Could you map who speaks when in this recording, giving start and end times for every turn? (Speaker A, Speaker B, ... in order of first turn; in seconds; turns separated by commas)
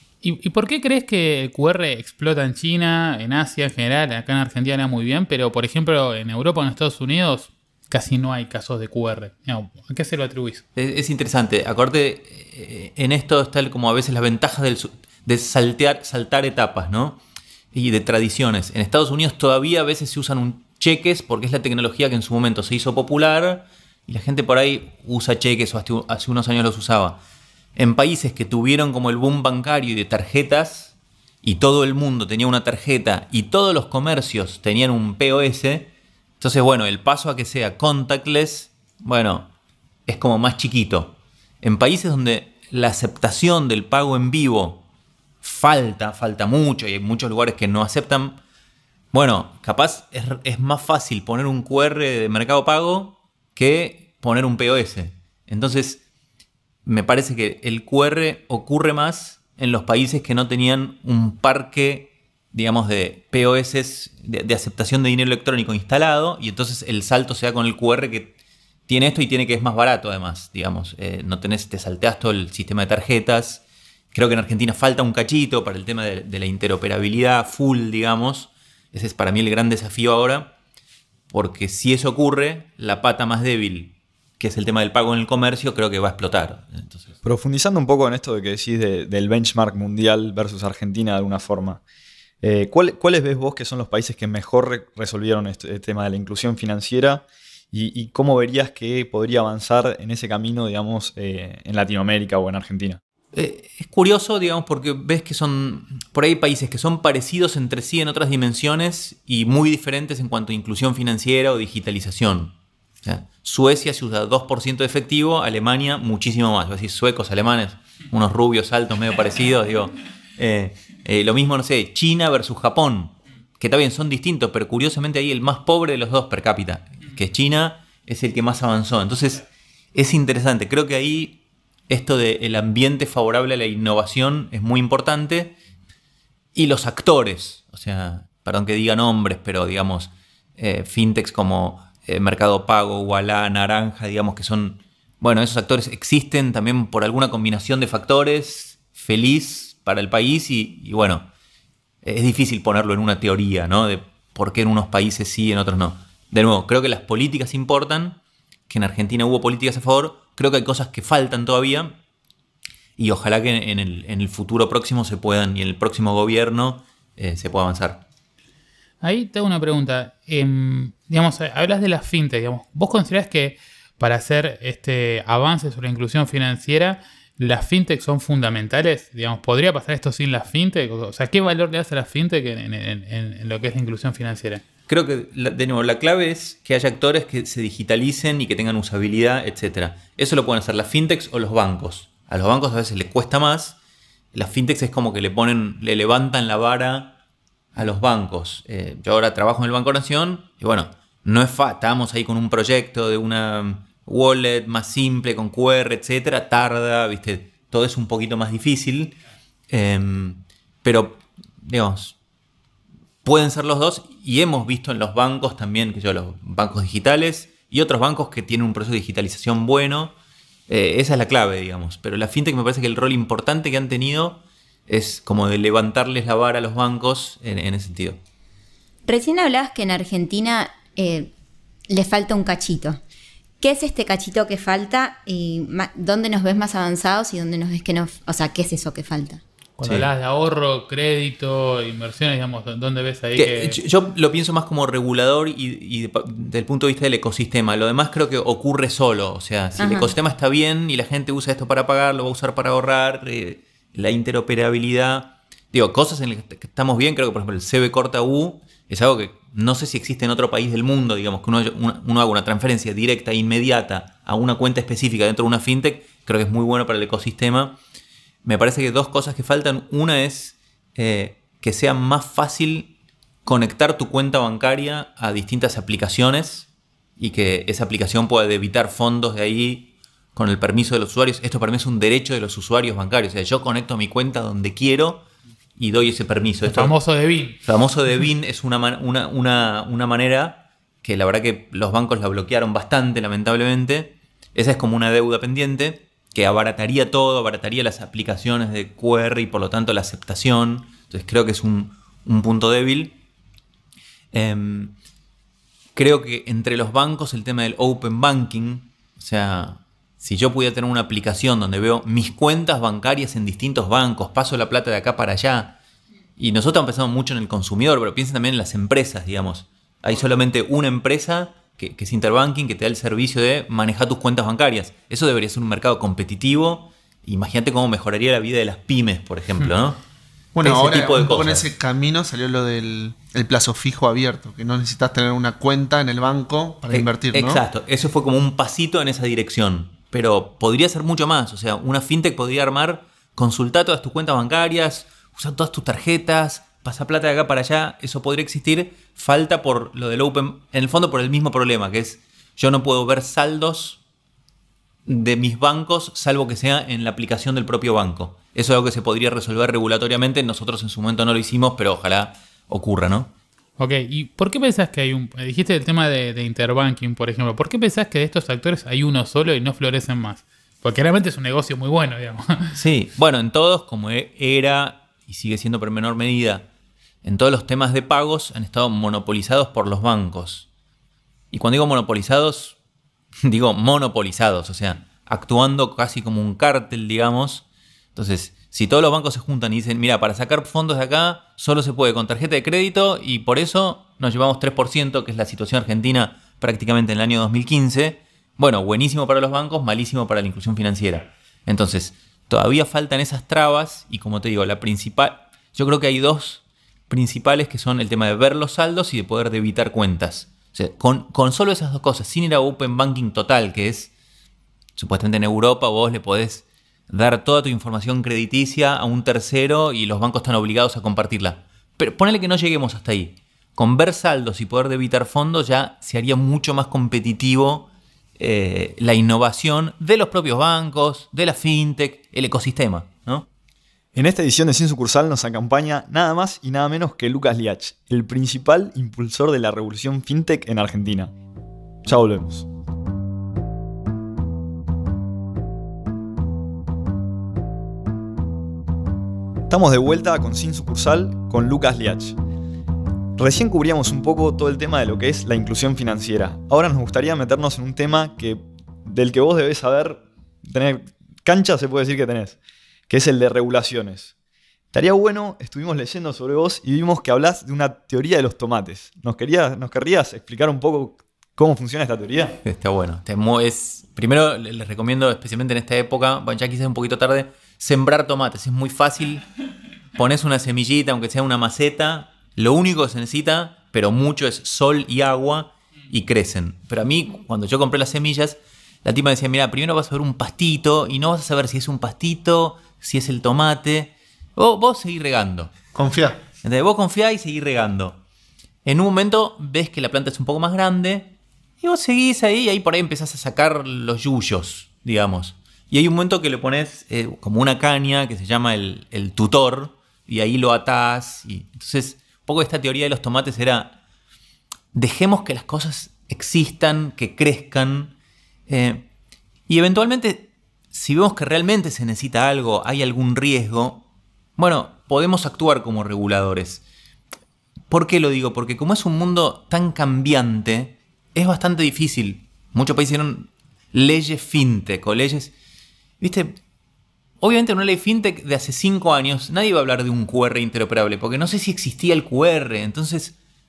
Speaker A: 0.2-10.6, Speaker B: 10.8-17.2, Speaker B: 17.7-27.2, Speaker B: 27.8-39.5, Speaker B: 40.1-44.8, Speaker B: 45.4-48.4, Speaker B: 49.1-56.0, Speaker B: 56.8-68.3, Speaker B: 68.9-80.5, Speaker B: 81.3-87.2, Speaker C: 87.2-91.8, Speaker C: 92.4-103.0, Speaker B: 103.3-135.5, Speaker B: 136.5-151.3, Speaker B: 152.0-162.0, Speaker B: 163.0-168.0, Speaker A: 169.0-184.6, Speaker B: 184.9-193.8, Speaker B: 194.3-197.1, Speaker B: 197.7-209.2, Speaker B: 209.7-212.2, Speaker B: 213.2-220.1, Speaker B: 220.7-228.2, Speaker D: 229.1-231.3, Speaker D: 231.9-233.0, Speaker D: 233.6-239.4, Speaker A: 239.8-243.8, Speaker B: 239.8-240.1, Speaker B: 243.3-267.8, Speaker D: 249.8-250.1, Speaker B: 268.4-272.9, Speaker B: 273.4-285.2, Speaker B: 285.8-286.9, Speaker A: 286.7-287.6, Speaker B: 287.6-303.2, Speaker B: 304.3-304.9, Speaker B: 305.9-315.8, Speaker B: 316.4-330.0, Speaker E: 330.5-337.6, Speaker B: 330.6-331.6, Speaker B: 336.9-354.0, Speaker B: 355.1-363.3, Speaker A: 363.8-372.8, Speaker B: 372.7-376.7, Speaker B: 377.2-380.7, Speaker B: 381.5-382.8, Speaker B: 383.4-387.6, Speaker B: 388.1-414.1, Speaker B: 415.0-433.5, Speaker C: 434.1-441.3, Speaker C: 442.0-442.6, Speaker C: 449.7-452.4, Speaker C: 453.4-462.6, Speaker C: 463.1-464.3, Speaker C: 464.9-472.6, Speaker B: 472.6-479.4, Speaker B: 480.1-495.7, Speaker E: 495.9-496.4, Speaker B: 496.6-498.2, Speaker B: 498.8-514.0, Speaker B: 514.9-518.1, Speaker B: 518.7-519.1, Speaker B: 519.7-524.0, Speaker B: 524.6-526.8, Speaker B: 527.9-535.5, Speaker B: 536.2-536.6, Speaker B: 537.4-543.3